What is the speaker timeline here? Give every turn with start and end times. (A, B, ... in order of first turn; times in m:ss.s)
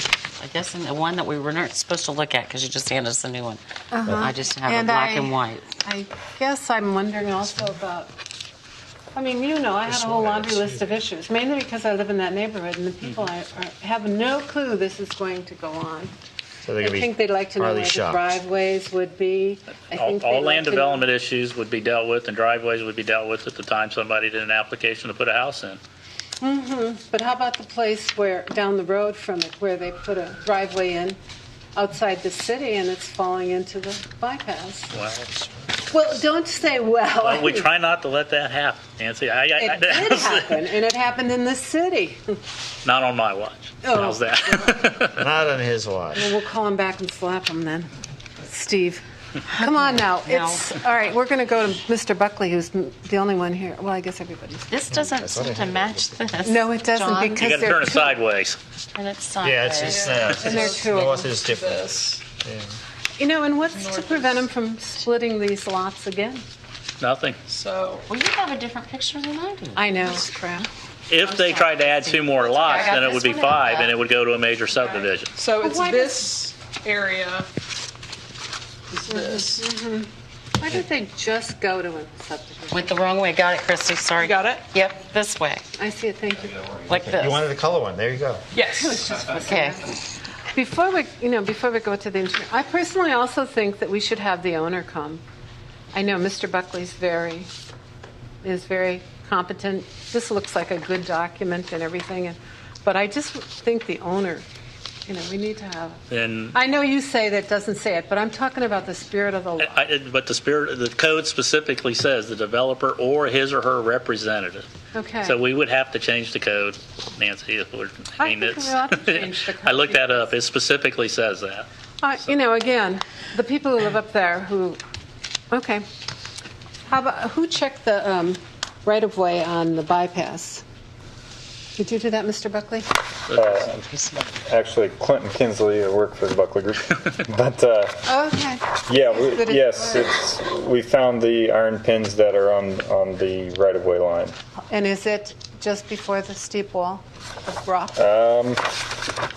0:00.4-0:05.6 A
0:03.9-0:08.1 B
0:09.1-0:16.1 B
0:09.9-0:10.7 C
0:16.6-0:18.2 C
0:16.8-0:21.0 B
0:19.9-0:25.8 D
0:26.4-0:31.2 B
0:31.7-0:34.9 B
0:34.9-0:35.3 D
0:35.9-0:37.7 B
0:37.2-0:40.6 D
0:39.6-0:42.4 B
0:42.8-0:45.2 D
0:43.8-0:44.9 B
0:45.1-0:46.3 C
0:46.1-0:47.9 B
0:48.4-0:54.8 B
0:49.5-0:50.7 A
0:54.7-0:57.6 A
0:55.0-0:56.2 C
0:56.4-0:58.2 B
0:57.3-0:58.6 D
0:58.9-1:00.0 A
0:59.4-1:02.7 C
0:59.9-1:02.2 E
1:00.2-1:01.3 B
1:03.2-1:06.4 B
1:03.7-1:04.4 E
1:07.0-1:07.4 D
1:07.5-1:08.0 E
1:08.1-1:10.0 A
1:09.7-1:10.7 B
1:11.1-1:15.3 D
1:11.2-1:14.0 A
1:14.8-1:17.5 E
1:15.6-1:16.3 B
1:18.9-1:19.7 E
1:19.0-1:23.0 B
1:22.7-1:25.6 A
1:24.2-1:24.7 E
1:25.8-1:26.7 B
1:26.9-1:27.5 A
1:26.9-1:28.4 C
1:28.5-1:29.0 E
1:28.6-1:30.0 B
1:29.4-1:29.8 A
1:30.5-1:35.2 B
1:35.9-1:37.5 B
1:38.4-1:44.4 B
1:45.1-1:46.0 B
1:46.1-1:46.6 D
1:46.5-1:49.8 B
1:49.6-1:54.7 D
1:54.9-1:55.4 B
1:55.2-2:01.7 D
1:58.2-2:00.3 B
2:02.0-2:04.8 B
2:05.5-2:05.8 B
2:06.9-2:10.6 B
2:11.8-2:12.9 B
2:13.3-2:13.7 D
2:13.3-2:13.8 F
2:13.9-2:14.2 A
2:14.4-2:18.1 F
2:18.0-2:20.1 B
2:18.8-2:24.3 F
2:24.7-2:28.1 B
2:28.0-2:28.6 F